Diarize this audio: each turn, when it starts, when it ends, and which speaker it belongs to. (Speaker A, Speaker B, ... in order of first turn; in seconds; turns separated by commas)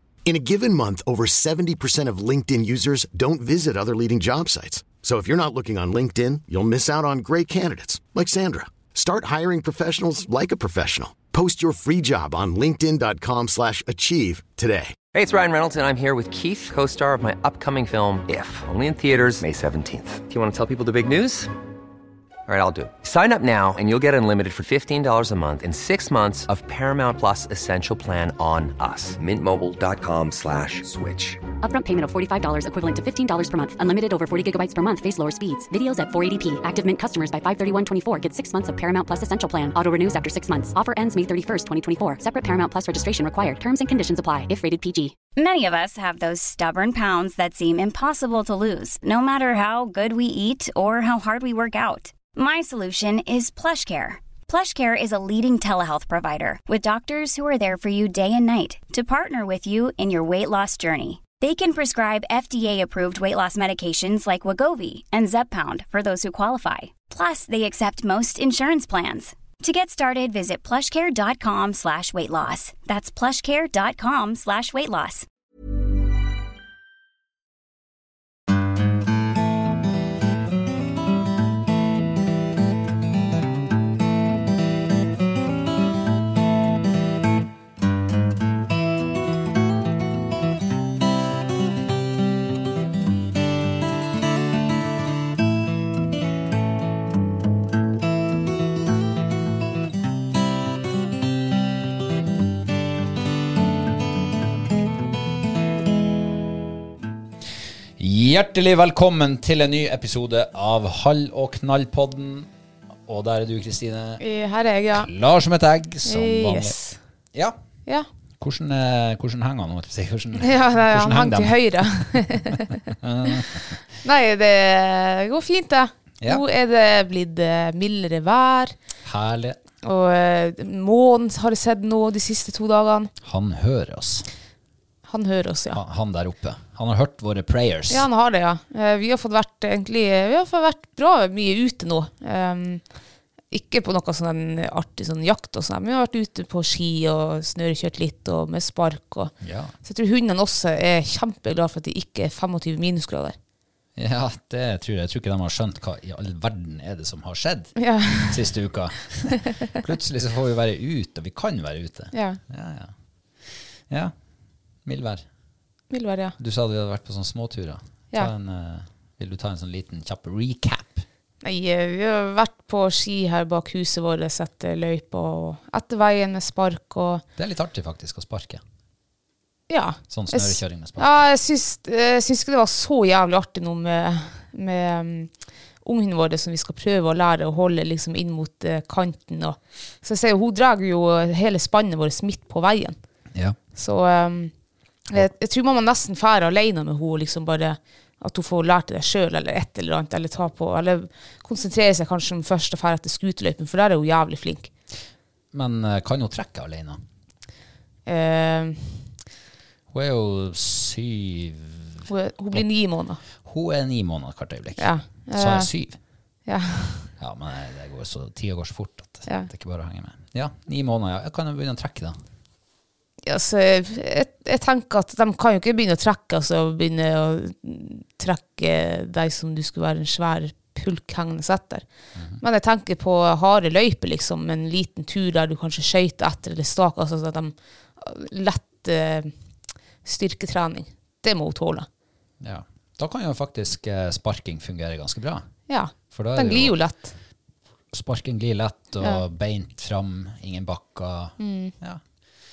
Speaker A: 0.3-15.0, Speaker B: 15.1-21.5, Speaker B: 22.5-31.4, Speaker C: 31.6-45.1, Speaker D: 45.3-75.3, Speaker E: 108.0-112.5, Speaker E: 113.1-114.2, Speaker F: 114.2-115.1, Speaker E: 114.9-116.8, Speaker F: 116.0-117.0, Speaker E: 118.4-122.2, Speaker F: 120.4-122.8, Speaker E: 123.0-123.8, Speaker F: 124.0-128.8, Speaker E: 129.0-129.6, Speaker F: 129.8-133.1, Speaker E: 133.2-134.3, Speaker F: 135.1-135.8, Speaker E: 135.7-138.1, Speaker F: 137.9-142.8, Speaker F: 143.5-153.3, Speaker E: 149.4-149.7, Speaker E: 154.0-162.9, Speaker F: 157.8-158.4, Speaker F: 162.1-162.4, Speaker E: 163.4-164.1, Speaker E: 164.8-165.2, Speaker F: 165.9-166.3, Speaker E: 166.4-171.1, Speaker F: 171.4-177.2, Speaker E: 177.4-178.6, Speaker F: 179.7-185.3, Speaker E: 180.1-181.2, Speaker F: 185.8-193.0, Speaker F: 193.8-194.5, Speaker F: 195.1-204.7, Speaker E: 205.5-207.0, Speaker F: 208.1-209.1, Speaker E: 209.9-212.6, Speaker F: 212.1-213.2, Speaker E: 213.4-216.0, Speaker F: 214.8-215.7, Speaker F: 216.5-217.1, Speaker E: 217.2-222.2, Speaker F: 223.2-231.8, Speaker F: 232.4-239.3, Speaker F: 240.0-241.9, Speaker E: 242.4-245.5, Speaker F: 245.7-247.1, Speaker E: 246.1-246.8, Speaker E: 247.9-252.0, Speaker F: 251.4-251.7